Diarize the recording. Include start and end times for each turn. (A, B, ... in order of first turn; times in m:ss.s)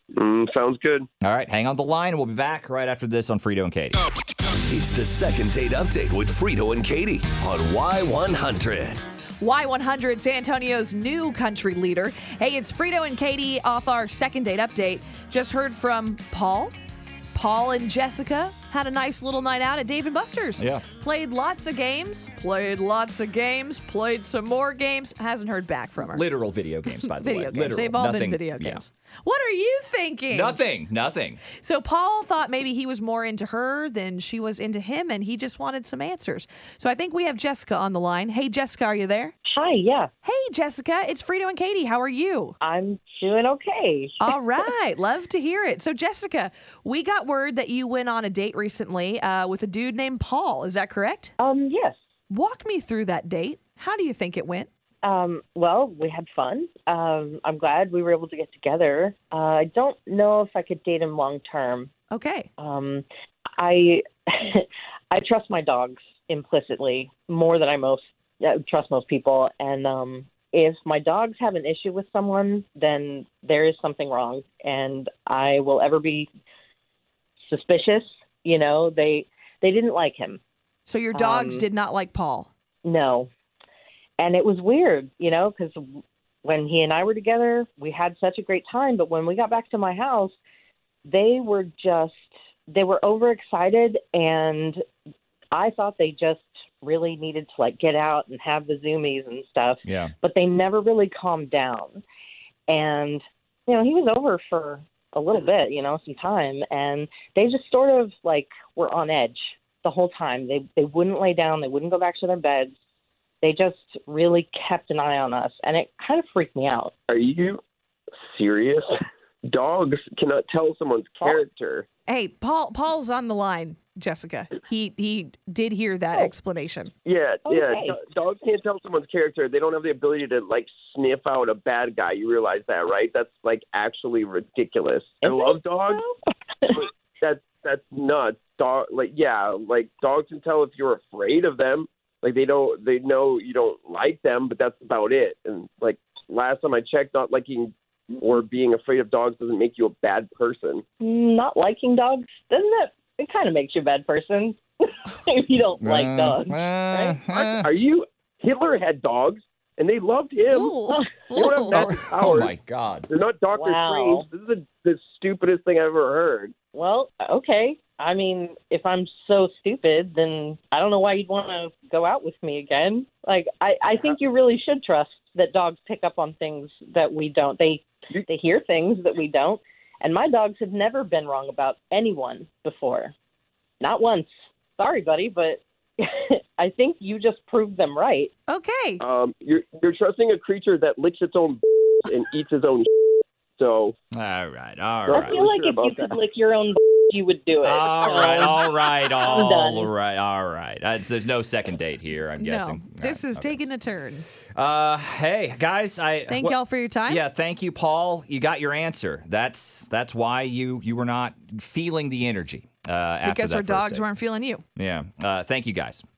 0:00.1-0:01.1 A
0:01.2-0:04.0 B
0:04.7-0:09.0 C
0:09.4-0:16.8 D
0:17.3-0:26.3 D
0:20.6-0:20.9 B
0:26.0-0:28.8 B
0:26.9-0:30.6 D
0:30.3-0:31.4 B
0:31.5-0:39.3 D
0:39.5-0:40.1 E
0:40.2-0:42.6 D
0:42.6-0:44.4 E
0:44.2-0:51.3 D
0:51.4-0:52.0 E
0:52.3-0:54.7 D
0:55.0-1:01.9 E
1:02.1-1:02.5 D
1:02.6-1:03.0 E
1:03.6-1:16.3 E
1:17.5-1:20.4 E
1:20.9-1:22.5 D
1:21.1-1:21.6 E
1:22.8-1:23.3 E
1:24.2-1:30.4 E
1:31.1-1:34.8 E
1:35.5-1:42.0 E
1:39.8-1:40.1 B
1:42.7-1:52.7 E
1:53.4-1:56.9 E
1:57.1-1:57.6 A
1:58.2-1:58.9 A
1:59.5-2:01.9 A
2:02.1-2:06.9 D
2:07.0-2:16.0 A
2:07.5-2:08.0 E
2:15.2-2:16.8 E
2:16.8-2:30.8 A
2:31.0-2:37.2 E
2:35.8-2:37.7 B
2:37.3-2:42.5 A
2:40.5-2:41.9 D
2:41.7-2:43.1 B
2:43.1-2:46.5 A
2:43.5-2:44.3 E
2:46.7-3:03.1 E
3:03.8-3:08.3 E
3:08.5-3:09.0 D
3:09.0-3:12.9 A
3:13.6-3:14.0 A
3:14.1-3:15.4 B
3:15.1-3:16.2 A
3:15.1-3:19.9 E
3:17.6-3:23.6 B
3:22.4-3:24.3 D
3:24.6-3:34.1 B
3:26.3-3:27.2 D
3:33.2-3:34.6 D
3:34.8-3:36.0 B